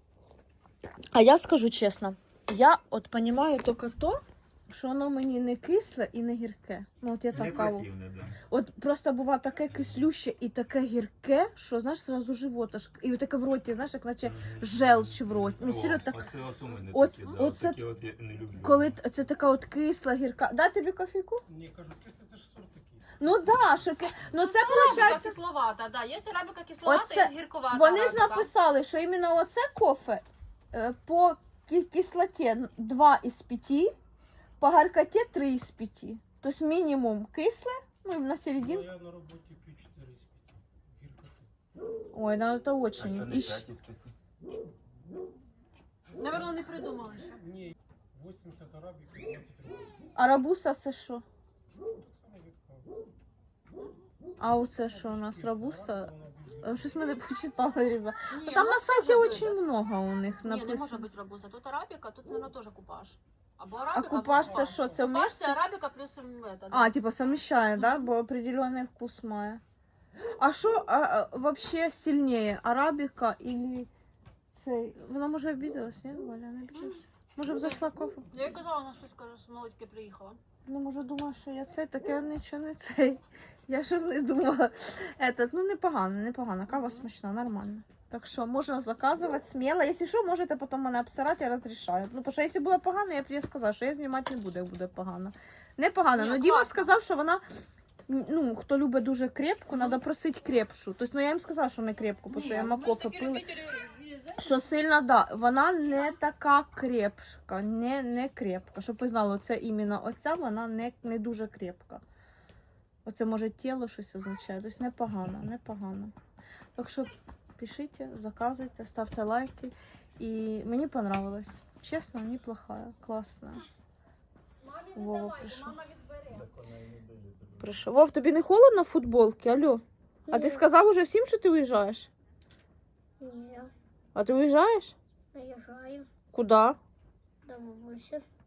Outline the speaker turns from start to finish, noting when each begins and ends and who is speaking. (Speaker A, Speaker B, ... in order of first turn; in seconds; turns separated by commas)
Speaker A: 1.1-7.9, Speaker B: 7.3-8.4, Speaker A: 8.5-16.3, Speaker B: 14.2-18.9, Speaker A: 16.9-17.8, Speaker A: 18.6-21.4, Speaker C: 21.5-23.2, Speaker A: 23.2-25.4, Speaker D: 24.3-28.5, Speaker A: 26.9-33.9, Speaker A: 34.6-38.9, Speaker C: 38.6-41.5, Speaker A: 42.1-43.6, Speaker B: 43.0-44.1, Speaker D: 46.1-47.4, Speaker C: 47.4-49.9, Speaker A: 50.2-51.2, Speaker C: 52.0-52.9, Speaker A: 54.4-61.0, Speaker C: 54.9-57.0, Speaker D: 58.3-59.6, Speaker D: 60.4-66.9, Speaker A: 63.9-65.6, Speaker C: 64.4-64.9, Speaker A: 66.7-69.6, Speaker D: 67.8-68.0, Speaker A: 70.4-73.9, Speaker A: 74.5-78.3, Speaker D: 78.3-80.4, Speaker A: 80.7-97.4, Speaker D: 86.7-87.1, Speaker D: 96.1-96.9, Speaker A: 98.1-103.5, Speaker D: 99.7-100.0, Speaker D: 102.3-104.5, Speaker A: 104.4-112.0, Speaker A: 113.1-116.1, Speaker A: 116.8-123.6, Speaker D: 124.6-126.4, Speaker A: 124.9-125.8, Speaker B: 126.3-127.8, Speaker A: 127.6-132.1, Speaker E: 130.3-130.6, Speaker E: 133.2-133.7, Speaker A: 134.2-134.9, Speaker E: 135.3-136.1, Speaker A: 136.3-136.8, Speaker E: 137.5-138.2